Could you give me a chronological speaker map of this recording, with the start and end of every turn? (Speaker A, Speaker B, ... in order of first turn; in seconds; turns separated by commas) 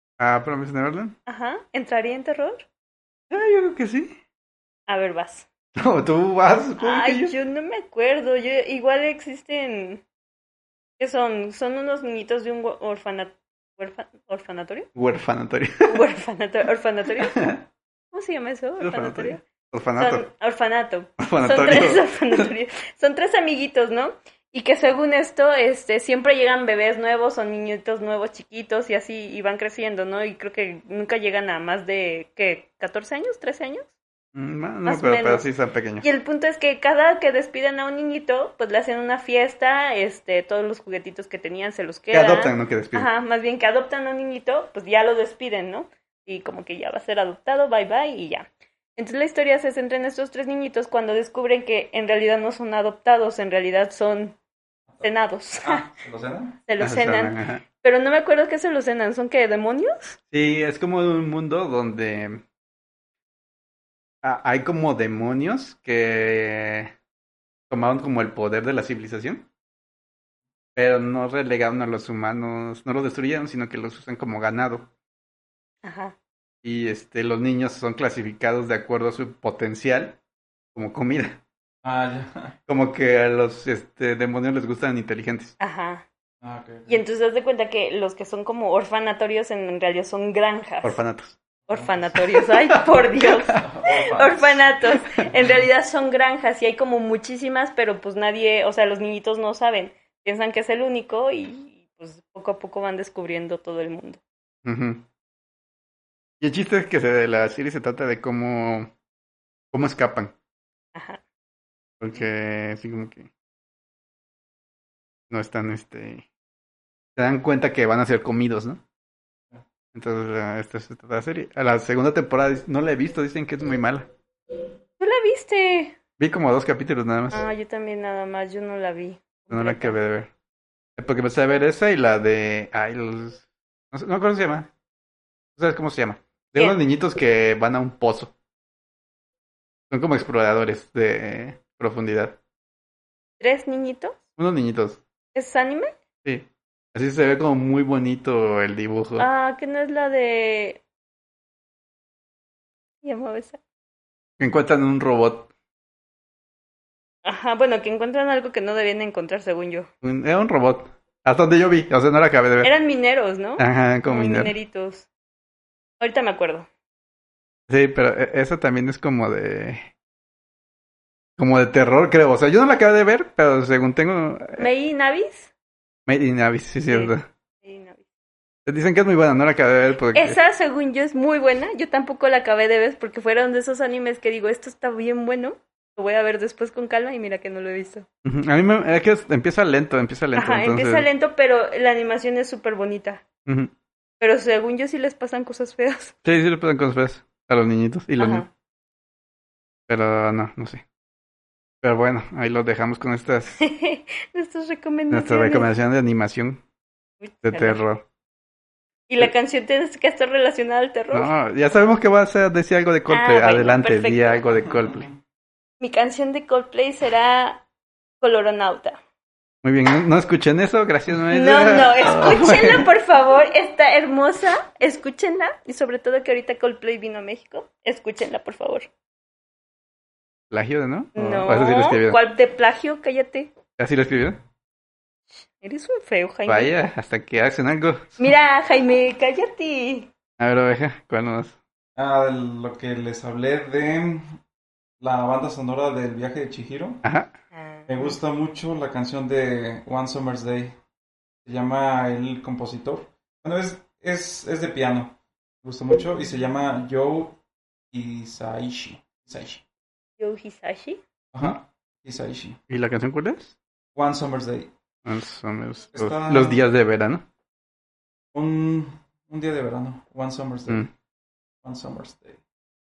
Speaker A: 0.2-1.2, Speaker B: 1.3-2.7, Speaker A: 3.3-4.2, Speaker B: 4.9-5.5, Speaker A: 5.8-7.3, Speaker B: 6.8-10.0, Speaker B: 11.0-14.9, Speaker A: 14.9-16.0, Speaker B: 15.9-17.5, Speaker A: 17.3-17.6, Speaker B: 18.1-19.4, Speaker A: 18.8-20.2, Speaker B: 20.0-33.9, Speaker A: 21.2-22.5, Speaker A: 34.3-36.1, Speaker B: 34.9-35.5, Speaker B: 36.0-54.4, Speaker A: 42.1-43.1, Speaker B: 55.0-55.9, Speaker C: 55.6-56.6, Speaker B: 56.7-60.2, Speaker A: 56.8-57.6, Speaker A: 60.3-62.4, Speaker A: 64.2-66.9, Speaker A: 67.7-69.5, Speaker A: 70.8-74.9, Speaker B: 75.8-76.2, Speaker A: 76.6-80.2, Speaker A: 80.8-81.4, Speaker C: 81.8-82.6, Speaker A: 82.7-85.5, Speaker B: 85.6-86.0, Speaker C: 86.4-87.0, Speaker B: 86.9-91.0, Speaker A: 90.8-91.4, Speaker C: 91.7-92.0, Speaker B: 91.7-104.2, Speaker A: 92.3-93.6, Speaker C: 93.5-94.7, Speaker A: 104.7-105.1, Speaker A: 106.4-108.9, Speaker A: 109.7-110.3, Speaker B: 111.0-111.2, Speaker A: 112.0-113.3, Speaker A: 115.3-116.3, Speaker A: 117.2-118.8, Speaker A: 119.9-124.1, Speaker B: 125.0-126.0, Speaker A: 126.2-127.5, Speaker B: 127.3-130.0, Speaker A: 129.5-130.3, Speaker A: 131.0-134.7, Speaker A: 135.6-138.3, Speaker A: 139.9-142.4, Speaker B: 143.4-144.2, Speaker A: 144.4-145.0, Speaker B: 145.3-145.9, Speaker A: 146.2-149.3, Speaker B: 149.2-150.8, Speaker B: 153.0-153.6, Speaker A: 154.4-155.5, Speaker B: 157.2-159.9, Speaker A: 160.0-162.7, Speaker B: 162.6-165.1, Speaker A: 163.6-164.6, Speaker B: 166.0-166.7, Speaker A: 167.7-169.9, Speaker A: 171.4-174.7, Speaker B: 174.6-175.5, Speaker A: 176.1-177.2, Speaker B: 176.9-178.0, Speaker A: 178.7-180.4, Speaker B: 180.1-188.1, Speaker A: 188.2-191.1, Speaker B: 190.3-193.2, Speaker A: 193.5-193.7, Speaker B: 194.2-196.2, Speaker A: 196.2-198.5, Speaker B: 198.2-198.5, Speaker A: 199.9-200.8, Speaker A: 201.8-203.6, Speaker B: 203.6-205.7, Speaker A: 205.1-206.6, Speaker B: 207.2-207.8, Speaker A: 207.4-208.1, Speaker B: 209.1-211.3, Speaker A: 211.1-215.1, Speaker B: 213.1-214.5, Speaker C: 214.6-215.2, Speaker B: 215.8-217.7, Speaker B: 218.2-219.0, Speaker A: 219.6-222.9, Speaker B: 221.3-228.9, Speaker A: 230.5-232.2, Speaker B: 231.2-233.5, Speaker A: 233.8-234.4, Speaker B: 235.5-236.7, Speaker A: 236.5-238.2, Speaker B: 238.2-240.1, Speaker A: 240.4-241.6, Speaker C: 242.0-244.2, Speaker C: 245.0-247.0, Speaker A: 247.0-247.3, Speaker B: 247.5-248.1, Speaker C: 247.9-250.8, Speaker C: 251.4-257.4, Speaker C: 257.9-259.6, Speaker B: 260.2-261.0, Speaker C: 261.3-262.6, Speaker A: 262.7-263.6, Speaker C: 263.9-264.7, Speaker A: 265.1-267.2, Speaker C: 265.9-266.6, Speaker C: 268.3-270.8, Speaker C: 271.6-272.4